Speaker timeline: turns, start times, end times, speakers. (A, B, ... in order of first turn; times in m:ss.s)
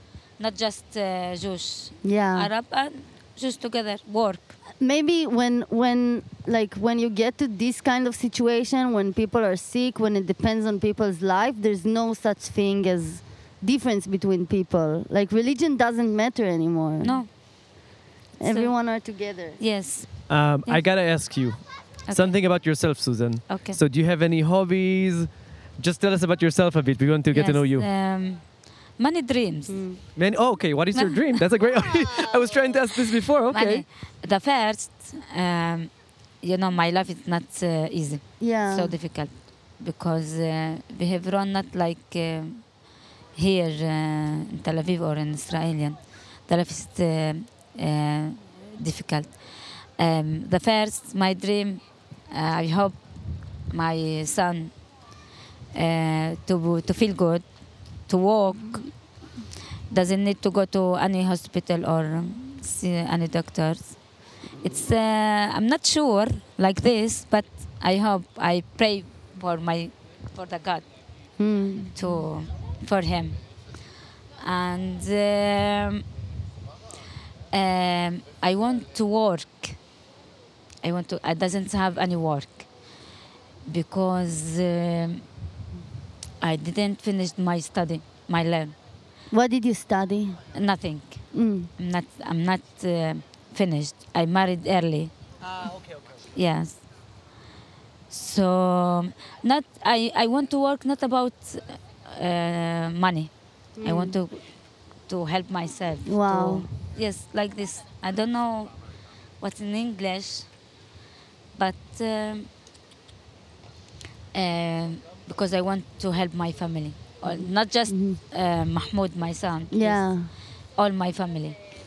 0:00.4-0:04.5 A
0:02.0-0:02.5 B
0:04.8-0:17.2 B
0:17.0-0:17.3 A
0:18.4-0:18.7 A
0:18.4-0:19.6 B
0:19.6-0:20.1 A
0:20.3-0:21.6 C
0:22.1-0:22.4 A
0:22.1-0:27.9 C
0:23.5-0:23.8 A
0:27.3-0:28.4 A
0:29.0-0:29.8 A
0:29.7-0:30.0 B
0:30.2-0:33.8 C
0:30.9-0:31.4 A
0:33.5-0:35.9 A
0:36.4-0:42.6 A
0:38.4-0:39.0 B
0:43.4-0:49.3 A
0:50.0-0:53.0 A
0:53.7-0:54.7 A
0:55.8-0:57.4 A
0:58.1-0:58.9 A
0:59.9-1:04.0 A
1:04.6-1:10.8 A
1:11.4-1:11.9 B
1:11.9-1:13.4 A
1:14.4-1:16.0 A
1:17.5-1:19.8 A
1:20.8-1:22.7 A
1:23.7-1:25.2 A
1:26.4-1:28.8 A
1:29.3-1:30.4 B
1:30.6-1:31.2 A
1:31.3-1:31.7 B
1:31.8-1:35.1 A
1:35.5-1:36.3 C
1:36.4-1:36.8 A
1:38.1-1:43.3 A
1:43.8-1:44.2 B
1:43.8-1:44.4 A
1:45.1-1:48.7 A
1:46.1-1:46.7 B
1:49.4-1:50.5 A
1:51.6-1:52.5 A
1:54.3-2:00.1 A
1:57.3-1:58.2 B
1:59.7-2:00.3 B
2:00.8-2:01.6 A